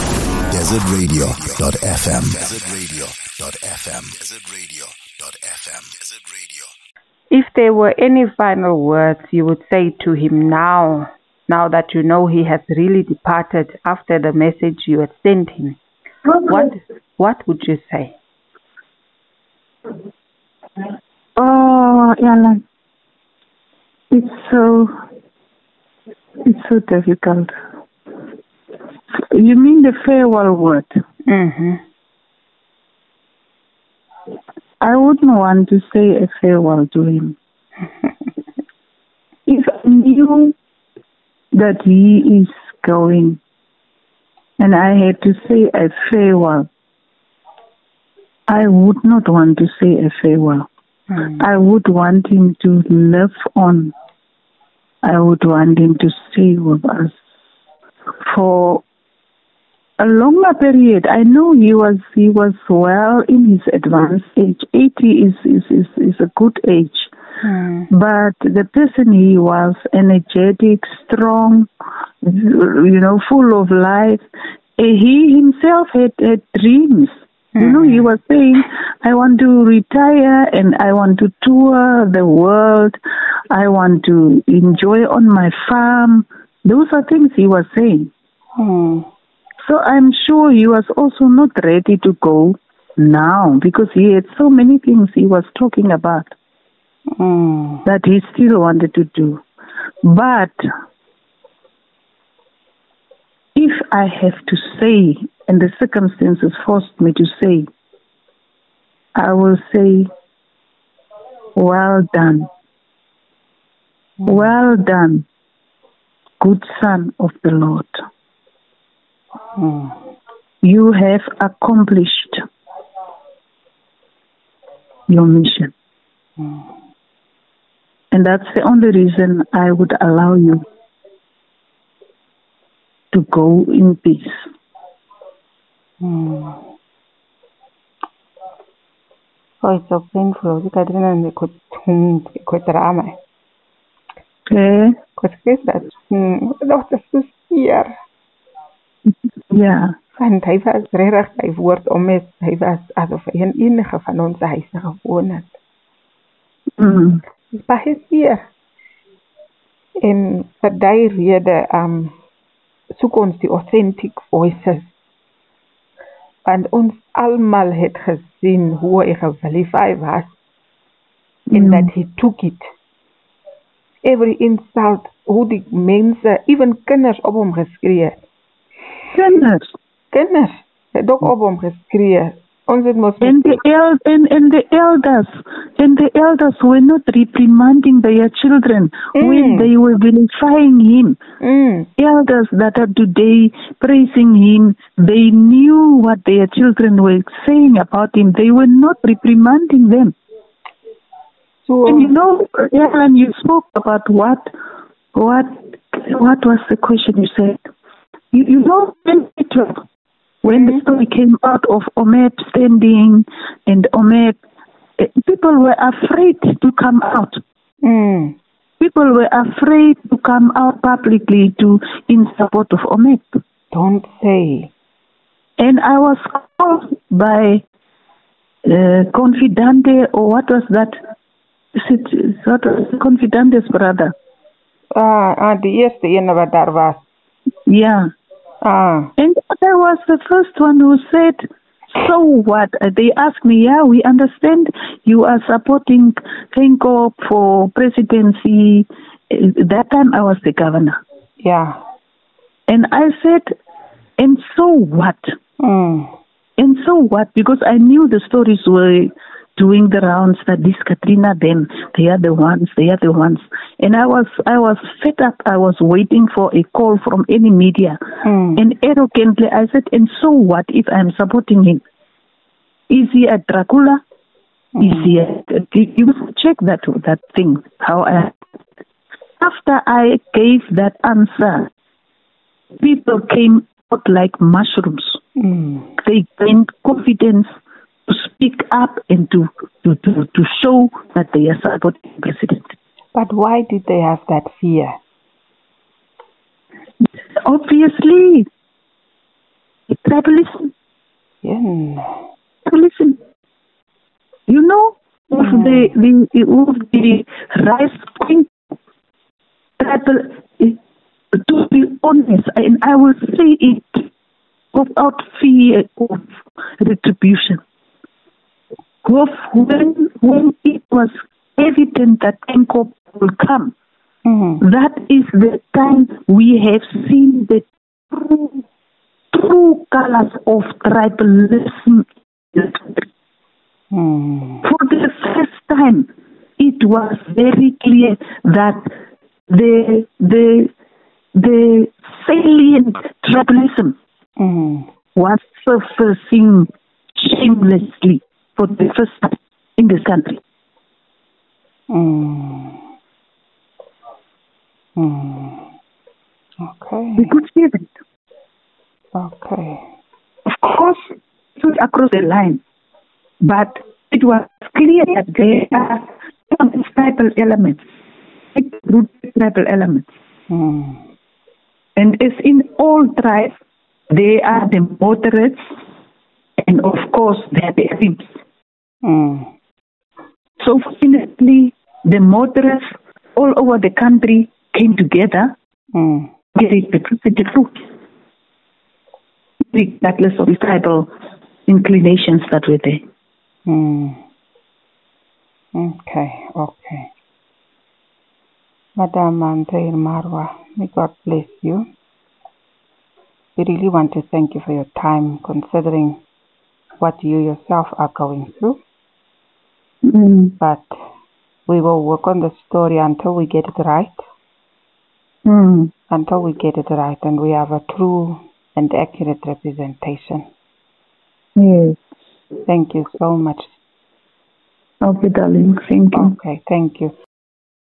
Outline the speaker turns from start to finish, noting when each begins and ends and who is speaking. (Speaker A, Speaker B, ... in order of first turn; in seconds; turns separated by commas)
Speaker A: 0.5-6.7, Speaker B: 7.3-15.8, Speaker C: 16.2-16.7, Speaker B: 16.4-18.2, Speaker C: 21.4-22.6, Speaker C: 24.1-24.9, Speaker C: 26.4-27.5, Speaker C: 29.3-30.9, Speaker B: 31.2-31.8, Speaker C: 34.8-37.4, Speaker C: 39.5-40.5, Speaker C: 41.5-43.4, Speaker C: 44.6-46.7, Speaker C: 48.5-50.7, Speaker B: 51.1-51.5, Speaker C: 51.4-53.9, Speaker C: 55.0-57.1, Speaker C: 58.2-58.8, Speaker C: 60.0-67.1, Speaker B: 67.4-67.9, Speaker C: 67.9-71.7, Speaker C: 72.2-74.2, Speaker C: 74.8-83.0, Speaker B: 77.5-78.1, Speaker C: 83.5-88.1, Speaker B: 88.6-89.1, Speaker C: 89.6-96.3, Speaker B: 97.2-97.8, Speaker C: 97.8-99.4, Speaker C: 100.0-100.5, Speaker C: 103.5-107.7, Speaker C: 109.2-110.1, Speaker C: 111.5-112.5, Speaker B: 114.2-114.5, Speaker C: 114.2-115.2, Speaker C: 116.4-117.9, Speaker B: 119.5-120.0, Speaker C: 120.6-122.4, Speaker C: 125.1-125.7, Speaker B: 126.4-126.7, Speaker C: 128.1-130.6, Speaker C: 133.1-134.3, Speaker B: 136.0-136.6, Speaker B: 139.6-143.2, Speaker C: 144.5-144.9, Speaker B: 145.2-147.9, Speaker C: 149.5-149.9, Speaker B: 150.2-155.5, Speaker C: 156.8-157.2, Speaker B: 157.5-158.5, Speaker B: 160.0-162.1, Speaker B: 162.9-164.9, Speaker B: 166.4-170.3, Speaker B: 171.5-172.7, Speaker C: 171.5-171.9, Speaker B: 174.0-178.2, Speaker C: 179.1-179.6, Speaker B: 180.1-183.6, Speaker C: 183.2-191.2, Speaker B: 189.1-189.7, Speaker B: 191.4-191.9, Speaker C: 192.0-200.1, Speaker B: 201.6-202.1, Speaker C: 201.8-204.5, Speaker C: 205.1-207.6, Speaker C: 208.3-209.8, Speaker C: 210.4-214.3, Speaker B: 210.4-210.8, Speaker C: 215.0-217.4, Speaker B: 217.8-218.4, Speaker C: 218.8-223.2, Speaker B: 223.7-224.7, Speaker C: 225.6-227.6, Speaker C: 228.7-230.9, Speaker C: 231.8-234.1, Speaker B: 234.9-237.0, Speaker C: 237.7-238.1, Speaker B: 238.6-239.1, Speaker C: 239.2-241.4, Speaker C: 242.0-251.0, Speaker B: 251.4-251.8, Speaker C: 252.7-253.5, Speaker C: 254.2-255.3, Speaker B: 255.6-256.1, Speaker C: 256.6-268.0, Speaker B: 268.2-268.6, Speaker C: 268.6-271.8, Speaker C: 272.9-274.0, Speaker B: 274.8-275.2, Speaker C: 274.8-278.3, Speaker C: 279.4-281.7, Speaker C: 282.8-285.2, Speaker B: 285.4-285.9, Speaker C: 286.0-287.5, Speaker C: 288.1-292.6, Speaker B: 293.1-295.0, Speaker C: 297.4-298.4, Speaker C: 300.0-300.7, Speaker B: 301.4-302.2, Speaker C: 302.6-303.1, Speaker C: 304.5-308.5, Speaker B: 305.4-305.9, Speaker C: 309.8-310.8, Speaker C: 311.3-314.1, Speaker C: 314.7-317.6, Speaker C: 319.0-323.7, Speaker B: 324.2-324.6, Speaker C: 324.6-328.6, Speaker C: 329.3-333.0, Speaker B: 333.9-334.6, Speaker C: 334.6-336.1, Speaker C: 336.6-338.9, Speaker C: 339.5-340.7, Speaker C: 341.4-344.0, Speaker B: 344.4-344.9, Speaker C: 345.1-350.4, Speaker B: 351.9-352.8, Speaker B: 354.9-355.7, Speaker B: 356.6-357.3, Speaker C: 357.2-357.9, Speaker B: 359.1-359.8, Speaker C: 360.5-361.0, Speaker C: 361.6-362.6, Speaker C: 363.4-367.8, Speaker C: 368.5-370.1, Speaker B: 370.5-371.0, Speaker C: 372.0-373.5, Speaker C: 374.1-375.6, Speaker C: 376.6-378.2, Speaker B: 379.0-379.5, Speaker C: 380.6-385.5, Speaker B: 385.9-386.3, Speaker C: 386.5-387.7, Speaker C: 389.7-391.1, Speaker C: 391.7-393.0, Speaker B: 393.6-394.2, Speaker B: 395.7-397.1, Speaker B: 399.0-401.9, Speaker B: 403.6-406.2, Speaker B: 407.0-408.8, Speaker C: 410.0-410.6, Speaker B: 410.6-410.9, Speaker B: 411.7-414.2, Speaker C: 415.4-415.9, Speaker B: 416.1-420.4, Speaker C: 421.6-422.0, Speaker B: 422.6-423.7, Speaker C: 425.0-426.4, Speaker B: 426.1-427.1